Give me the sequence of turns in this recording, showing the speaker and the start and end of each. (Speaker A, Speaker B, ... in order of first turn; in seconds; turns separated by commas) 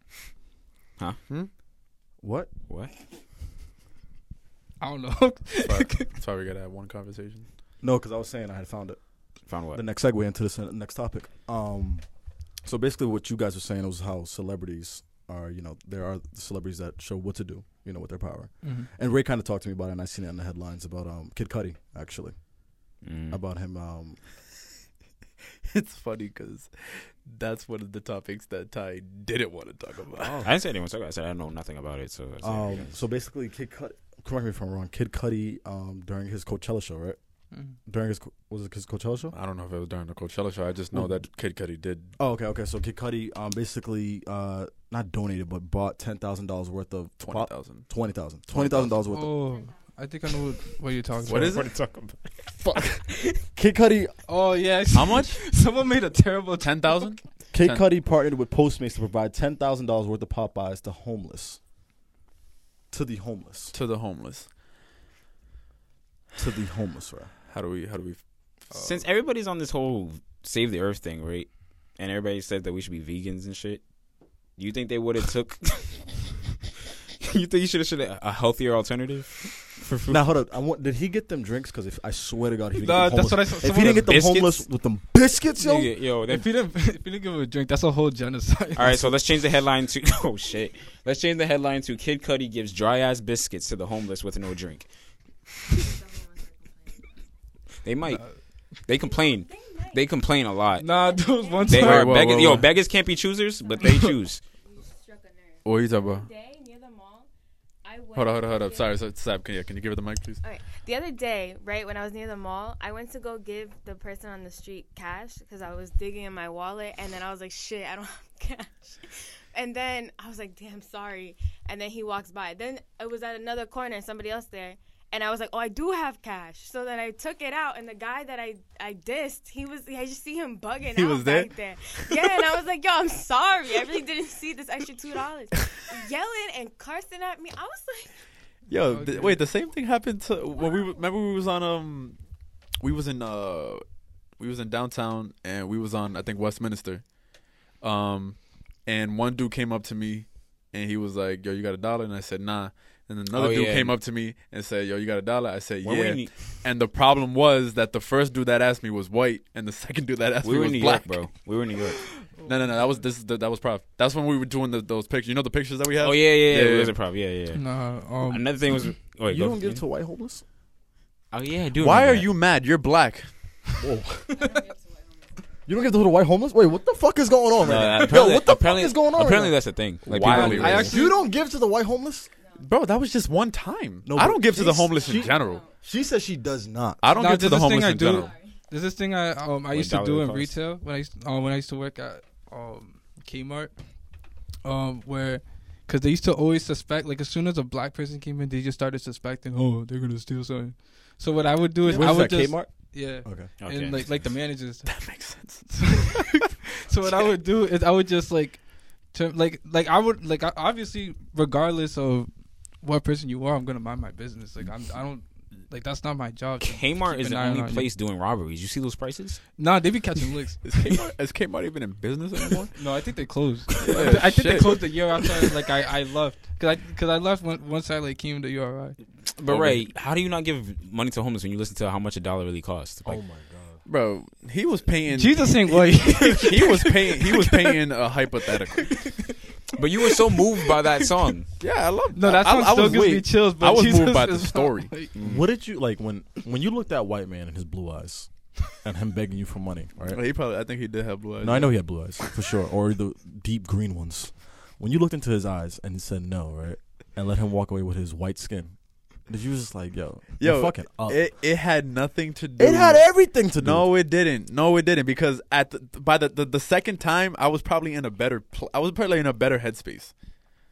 Speaker A: 2.2-2.5, Speaker B: 4.8-6.1, Speaker C: 5.6-7.5, Speaker A: 7.8-12.1, Speaker D: 9.5-9.8, Speaker A: 12.6-22.7, Speaker B: 18.6-18.9, Speaker D: 23.0-23.4, Speaker A: 23.3-24.2, Speaker C: 25.7-30.4, Speaker D: 30.2-33.0, Speaker A: 32.4-37.2, Speaker A: 37.9-39.3, Speaker C: 39.3-42.1, Speaker A: 42.2-49.4, Speaker C: 47.2-47.9, Speaker C: 48.5-48.9, Speaker B: 49.0-51.6, Speaker E: 49.4-49.9, Speaker C: 51.3-51.7, Speaker D: 51.3-53.4, Speaker A: 52.6-54.2, Speaker B: 54.3-57.1, Speaker C: 54.9-55.4, Speaker C: 56.6-57.9, Speaker A: 57.5-61.6, Speaker A: 62.9-63.7, Speaker C: 63.7-64.5, Speaker A: 66.3-67.3, Speaker C: 67.5-68.2, Speaker B: 68.7-69.0, Speaker D: 68.7-73.8, Speaker D: 74.5-76.2, Speaker D: 77.2-80.2, Speaker A: 80.1-85.9, Speaker B: 82.8-84.2, Speaker D: 84.0-84.6, Speaker D: 85.5-86.5, Speaker B: 86.3-89.1, Speaker D: 88.8-94.9, Speaker E: 95.7-97.2, Speaker D: 97.8-98.2, Speaker B: 98.1-98.3, Speaker D: 98.8-100.9, Speaker E: 98.9-100.1, Speaker E: 100.8-102.4, Speaker B: 100.8-102.3, Speaker D: 101.6-104.4, Speaker C: 101.8-102.7, Speaker E: 103.6-107.3, Speaker B: 103.8-104.1, Speaker C: 105.6-106.3, Speaker E: 107.8-109.0, Speaker C: 108.1-110.4, Speaker E: 110.4-138.2, Speaker C: 130.9-131.5, Speaker C: 132.1-132.4, Speaker C: 138.7-142.2, Speaker B: 138.8-139.4, Speaker E: 140.5-141.0, Speaker C: 142.8-143.8, Speaker C: 144.4-147.1, Speaker C: 147.7-161.2, Speaker D: 153.3-154.0, Speaker D: 155.8-156.6, Speaker D: 160.4-162.2, Speaker B: 162.3-162.8, Speaker C: 162.4-166.9, Speaker D: 166.0-169.8, Speaker B: 167.5-168.4, Speaker A: 169.3-170.4, Speaker D: 171.3-172.3, Speaker C: 171.8-173.3, Speaker A: 173.8-174.4, Speaker E: 174.2-175.8, Speaker A: 175.7-179.6, Speaker D: 177.6-180.9, Speaker C: 180.1-180.9, Speaker B: 180.2-181.2, Speaker A: 180.3-182.3, Speaker E: 182.4-182.7, Speaker C: 182.6-185.6, Speaker A: 184.0-187.0, Speaker E: 184.6-185.9, Speaker C: 187.0-188.3, Speaker B: 187.1-193.7, Speaker E: 188.0-188.6, Speaker D: 189.7-190.6, Speaker B: 194.6-217.9, Speaker C: 201.8-202.2, Speaker A: 201.9-203.5, Speaker D: 203.6-204.1, Speaker C: 204.8-206.2, Speaker D: 216.6-219.4, Speaker B: 219.6-220.6, Speaker C: 220.6-222.7, Speaker B: 222.7-229.0, Speaker C: 223.8-224.8, Speaker D: 229.3-233.2, Speaker C: 229.5-229.8, Speaker A: 233.0-233.8, Speaker C: 233.8-239.1, Speaker B: 235.1-237.7, Speaker B: 238.8-239.3, Speaker D: 239.7-241.5, Speaker B: 240.0-241.3, Speaker C: 241.6-245.4, Speaker B: 242.1-245.1, Speaker A: 245.2-250.2, Speaker C: 250.0-251.8, Speaker A: 251.4-261.2, Speaker C: 260.4-270.1, Speaker A: 262.6-263.9